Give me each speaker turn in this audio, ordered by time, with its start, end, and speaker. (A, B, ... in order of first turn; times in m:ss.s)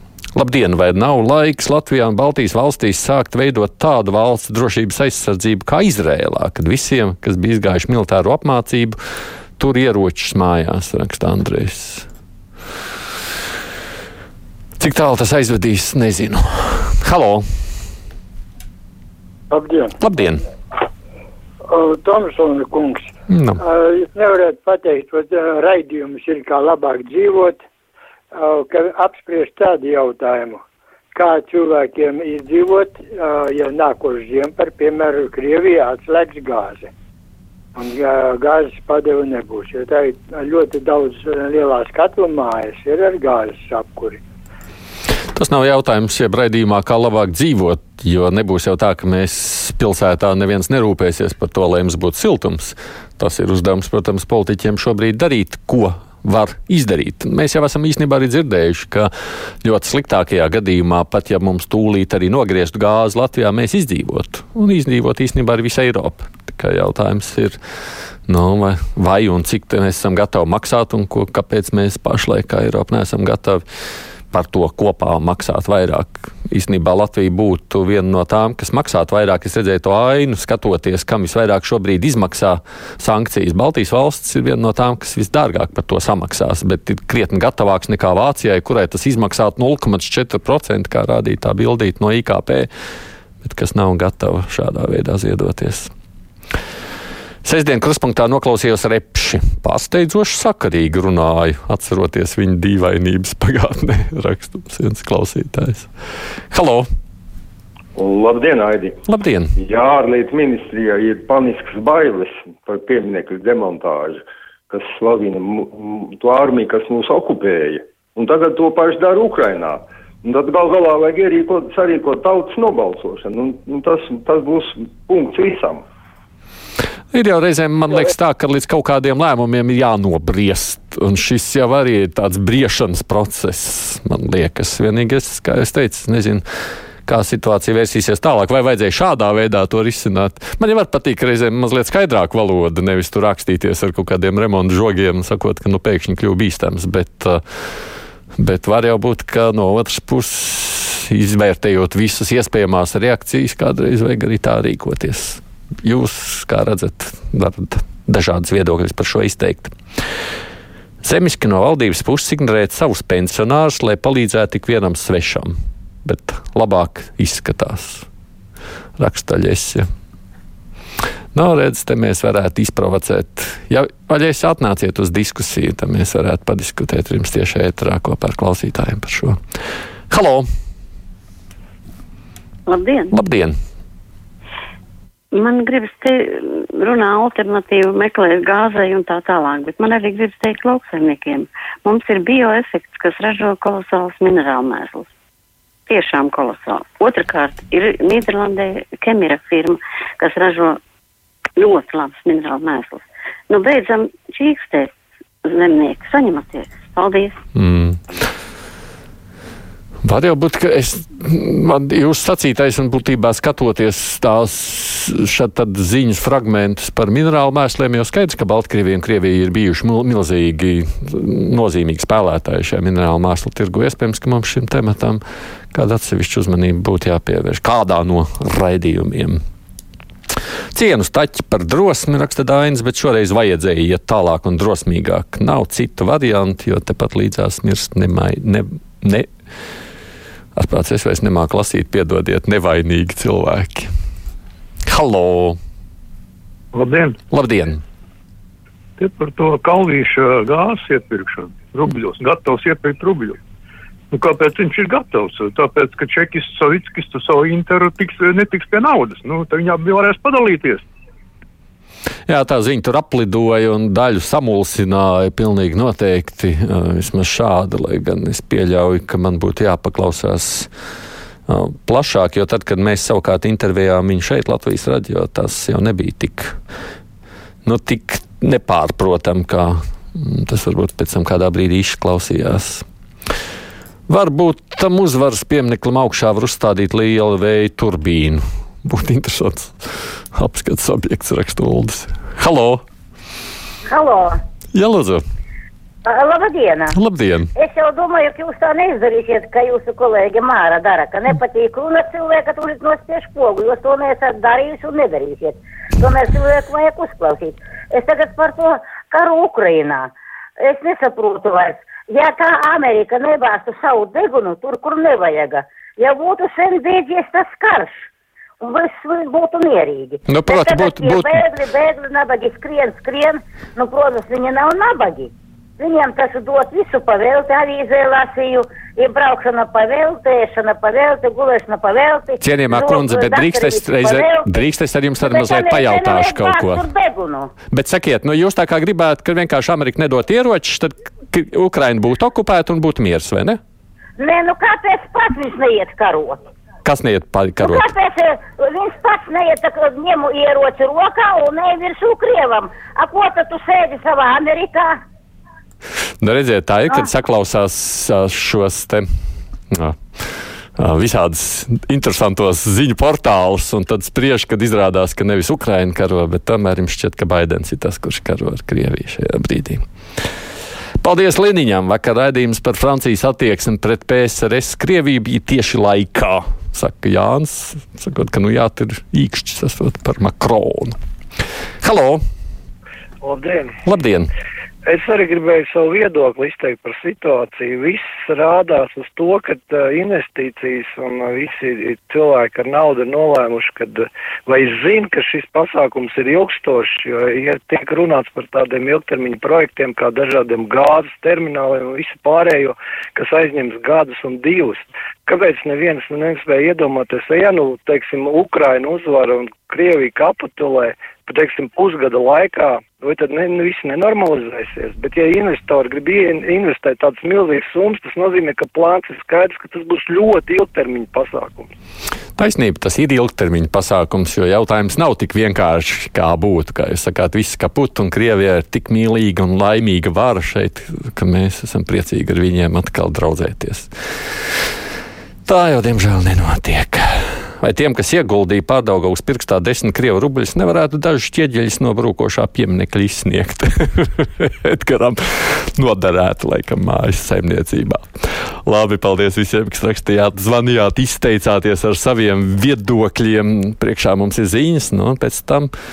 0:00.4-0:09.0 A
0:09.6-0:12.1 A
0:14.8-0:17.4 A
0:19.5-0:20.0 B
0:20.0-0:20.5 A
0:21.7-0:23.1 B
0:23.3-0:23.6 A
0:23.6-0:27.6 B
0:28.3-0:30.6 B
0:31.1-0:36.9 B
0:37.8-0:44.2 B
0:45.4-0:59.1 A
0:59.6-1:07.6 A
1:08.3-1:13.6 A
1:14.3-1:32.7 A
1:33.4-1:35.9 A
1:37.4-1:45.9 A
1:46.5-1:46.9 A
1:48.0-1:49.0 C
1:49.1-1:49.5 A
1:49.6-2:05.8 C
2:07.1-2:16.4 A
2:17.1-2:27.4 A
2:28.4-2:39.8 A
2:41.0-2:45.5 A
2:46.0-2:48.1 A
2:49.0-2:49.8 A
2:51.3-2:59.4 A
3:00.1-3:00.4 A
3:02.7-3:03.1 D
3:03.1-3:03.6 A
3:05.3-3:15.1 D
3:15.9-3:20.8 D
3:21.6-3:24.9 D
3:25.4-3:27.4 D
3:27.6-3:28.0 A
3:30.0-3:45.2 A
3:45.7-3:49.4 A
3:50.7-3:59.3 A
4:00.6-4:03.9 A
4:04.9-4:05.6 A
4:06.7-4:07.2 E
4:07.3-4:07.8 A
4:09.0-4:13.4 E
4:14.1-4:20.8 E
4:22.3-4:30.7 A
4:31.5-4:36.6 A
4:37.6-4:42.8 A
4:44.1-4:52.8 A
4:53.9-4:54.4 F
4:54.7-4:55.2 A
4:56.1-4:57.0 F
4:56.9-4:57.5 A
4:57.6-5:18.1 F
5:18.6-5:34.7 F
5:20.3-5:21.5 A
5:32.4-5:36.9 A
5:35.2-5:37.5 F
5:37.7-5:43.6 A
5:44.2-5:46.4 F
5:46.8-5:47.8 A
5:47.6-5:55.0 F
5:56.2-5:59.1 A
5:59.7-6:00.0 A
6:00.8-6:09.8 A
6:11.0-6:21.0 A
6:21.8-6:22.2 A
6:23.2-6:23.7 G
6:23.9-6:24.3 A
6:24.9-7:01.7 G
7:02.4-7:13.9 A
7:15.5-7:28.1 A
7:28.6-7:35.7 A